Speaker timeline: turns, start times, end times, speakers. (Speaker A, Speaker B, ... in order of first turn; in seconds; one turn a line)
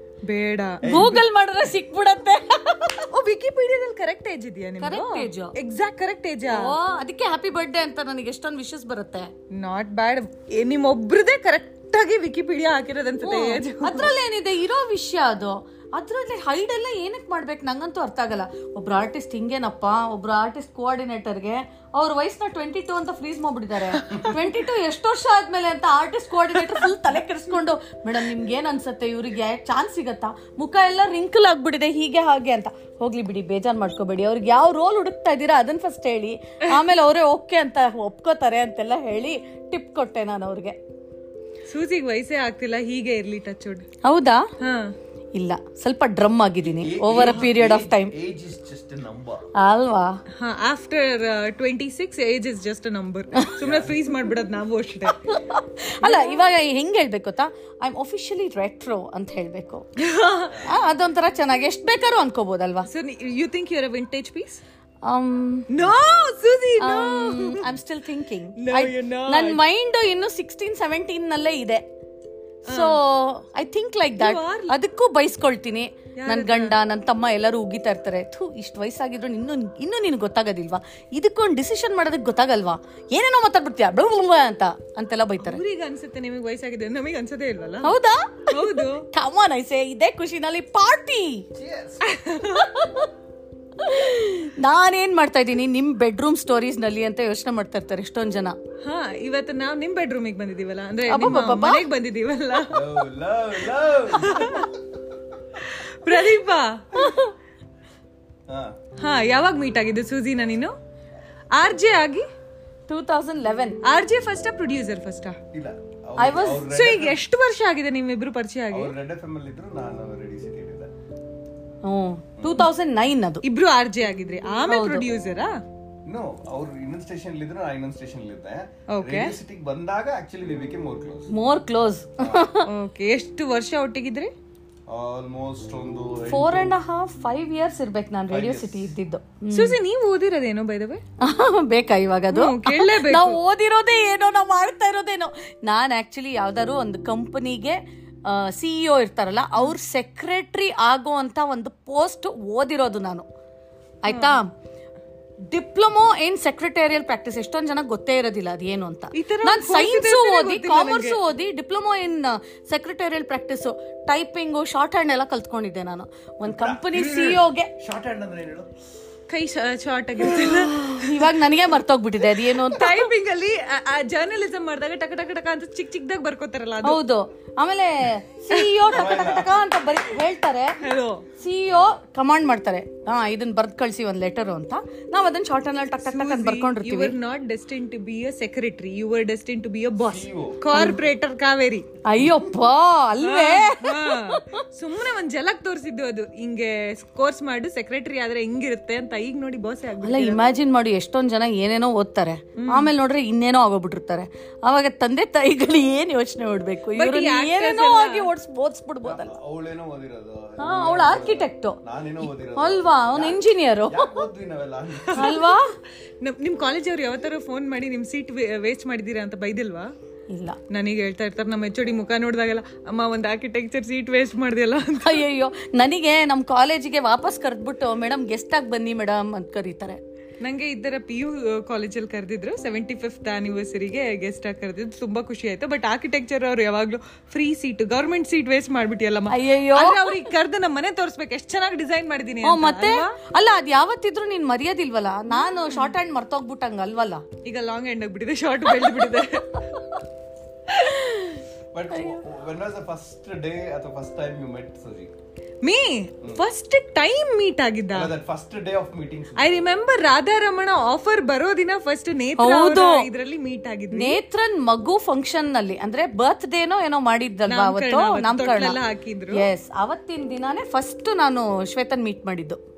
Speaker A: 0.2-1.2
Speaker B: 0.8-1.2
Speaker C: 0.8-3.1
Speaker A: 3.1-6.7
Speaker C: 4.8-5.5
Speaker C: 6.5-9.3
Speaker A: 9.5-14.1
Speaker C: 13.2-40.8
Speaker A: 23.9-24.4
Speaker A: 41.7-43.9
Speaker C: 44.0-44.4
Speaker A: 44.6-44.9
Speaker C: 45.4-48.1
Speaker B: 46.8-49.5
Speaker A: 47.2-47.5
Speaker C: 49.6-50.1
Speaker A: 50.4-55.2
Speaker B: 53.6-53.9
Speaker C: 55.3-59.9
Speaker A: 56.0-56.5
Speaker A: 60.0-60.7
Speaker C: 60.5-62.9
Speaker A: 62.9-64.6
Speaker C: 65.0-65.7
Speaker A: 65.7-67.7
Speaker C: 66.8-71.8
Speaker A: 68.6-69.6
Speaker C: 72.7-85.6
Speaker A: 72.7-73.0
Speaker A: 74.2-74.8
Speaker A: 76.2-76.8
Speaker A: 85.4-87.9
Speaker C: 87.8-91.5
Speaker A: 88.5-89.0
Speaker B: 91.6-92.0
Speaker A: 92.0-93.1
Speaker C: 93.8-98.6
Speaker A: 98.8-103.0
Speaker C: 101.1-101.8
Speaker B: 102.7-104.7
Speaker A: 104.1-104.7
Speaker A: 105.6-106.8
Speaker C: 106.9-107.3
Speaker B: 108.5-108.7
Speaker A: 109.0-110.7
Speaker A: 111.5-112.3
Speaker C: 112.9-113.8
Speaker A: 113.8-115.4
Speaker B: 115.5-117.2
Speaker C: 116.2-116.7
Speaker A: 116.7-118.9
Speaker B: 118.7-120.9
Speaker C: 121.8-123.4
Speaker A: 123.4-125.6
Speaker C: 124.7-125.1
Speaker B: 126.1-131.3
Speaker A: 128.9-129.4
Speaker C: 131.3-132.7
Speaker B: 132.2-132.5
Speaker A: 132.7-134.3
Speaker B: 134.9-136.7
Speaker C: 136.3-139.8
Speaker B: 138.3-138.9
Speaker A: 139.5-141.0
Speaker C: 141.2-153.2
Speaker A: 142.3-143.4
Speaker C: 154.0-154.5
Speaker A: 154.1-154.4
Speaker C: 155.5-167.7
Speaker A: 159.2-161.2
Speaker B: 166.5-168.7
Speaker A: 169.3-171.3
Speaker C: 170.3-173.1
Speaker A: 172.4-177.0
Speaker C: 176.8-180.8
Speaker A: 178.5-178.9
Speaker B: 178.9-179.6
Speaker A: 180.8-181.2
Speaker C: 181.4-187.2
Speaker A: 186.0-191.9
Speaker B: 190.0-190.6
Speaker C: 190.7-191.0
Speaker C: 192.1-194.6
Speaker A: 193.2-200.5
Speaker C: 200.0-209.4
Speaker A: 202.6-202.9
Speaker A: 206.9-208.3
Speaker B: 209.0-215.4
Speaker C: 210.6-211.8
Speaker C: 212.6-214.2
Speaker A: 215.1-215.6
Speaker C: 215.2-215.7
Speaker A: 216.2-219.9
Speaker C: 220.3-220.6
Speaker A: 220.7-225.2
Speaker C: 225.0-230.0
Speaker A: 230.4-243.2
Speaker C: 239.3-240.3
Speaker C: 242.4-247.2
Speaker A: 247.4-249.6
Speaker C: 250.8-251.4
Speaker B: 251.7-255.1
Speaker A: 255.6-258.1
Speaker B: 257.9-259.6
Speaker A: 259.4-264.2
Speaker C: 262.4-263.1
Speaker C: 263.9-268.8
Speaker A: 267.5-269.5
Speaker C: 269.3-272.6